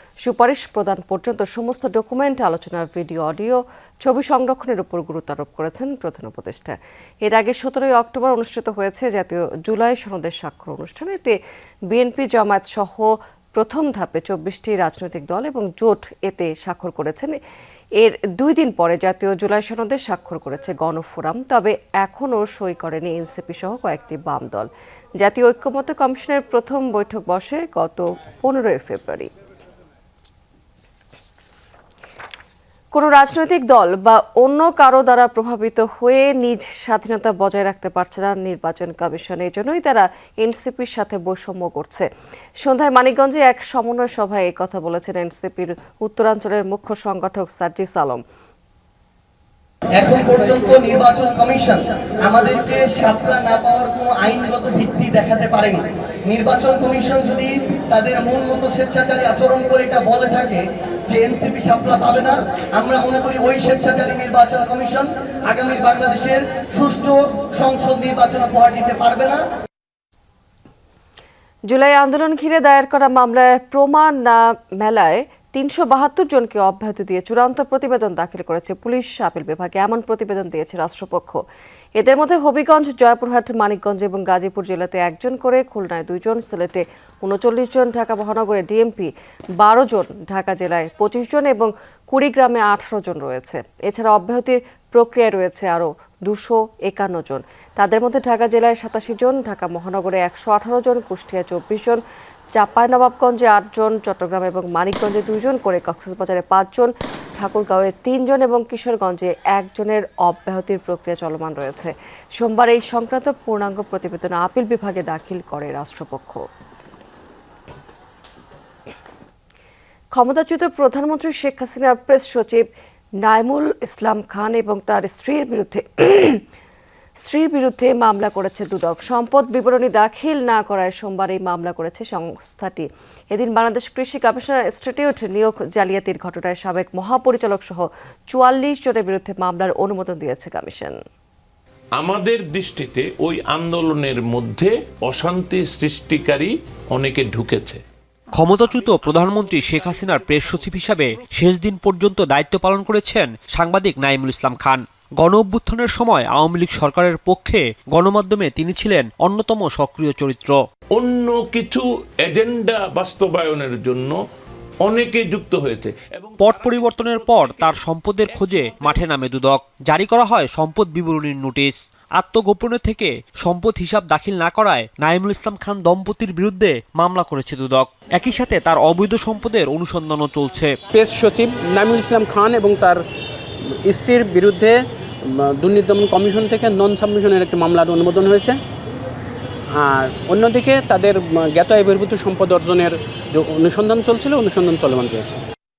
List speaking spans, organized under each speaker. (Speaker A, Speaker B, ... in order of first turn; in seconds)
Speaker A: 0.2-11.3, 11.9-17.4, 18.0-24.7, 25.2-29.3, 32.9-42.0, 42.6-48.2, 71.7-81.4, 82.0-102.0, 102.5-116.4, 120.1-122.7, 123.2-126.4, 127.2-141.0
Speaker B: 50.0-69.4
Speaker C: 142.0-147.8, 160.9-164.2, 164.8-169.1
Speaker D: 148.4-160.6, 166.4-180.8
Speaker E: 180.9-183.0, 183.8-184.8, 185.4-188.6, 189.8-195.4